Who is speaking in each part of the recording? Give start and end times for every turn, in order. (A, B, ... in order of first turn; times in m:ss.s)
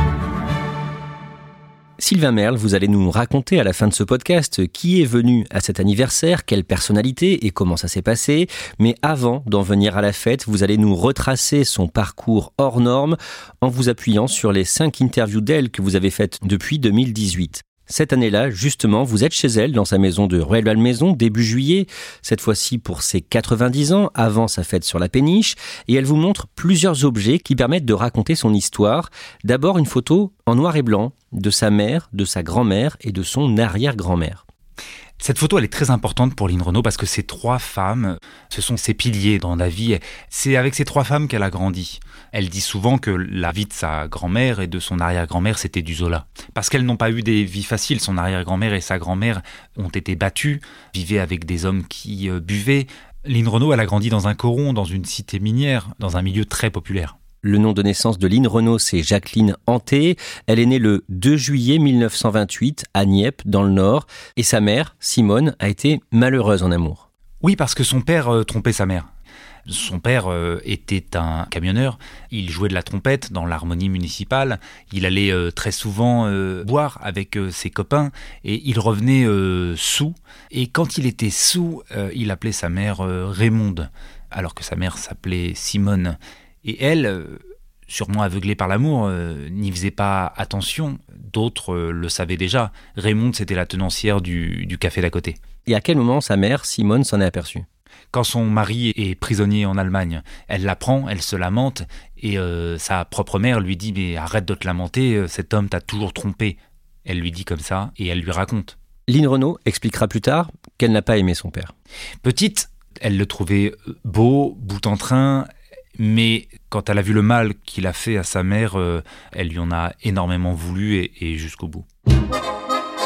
0:02.0-0:34.4 A
0:35.2-0:57.2 B
0:57.4-1:07.0 A
1:07.4-1:09.1 B
1:09.7-1:35.4 B
1:35.7-1:37.7 A
1:38.1-1:48.8 B
1:49.1-1:51.7 A
1:52.2-2:01.9 B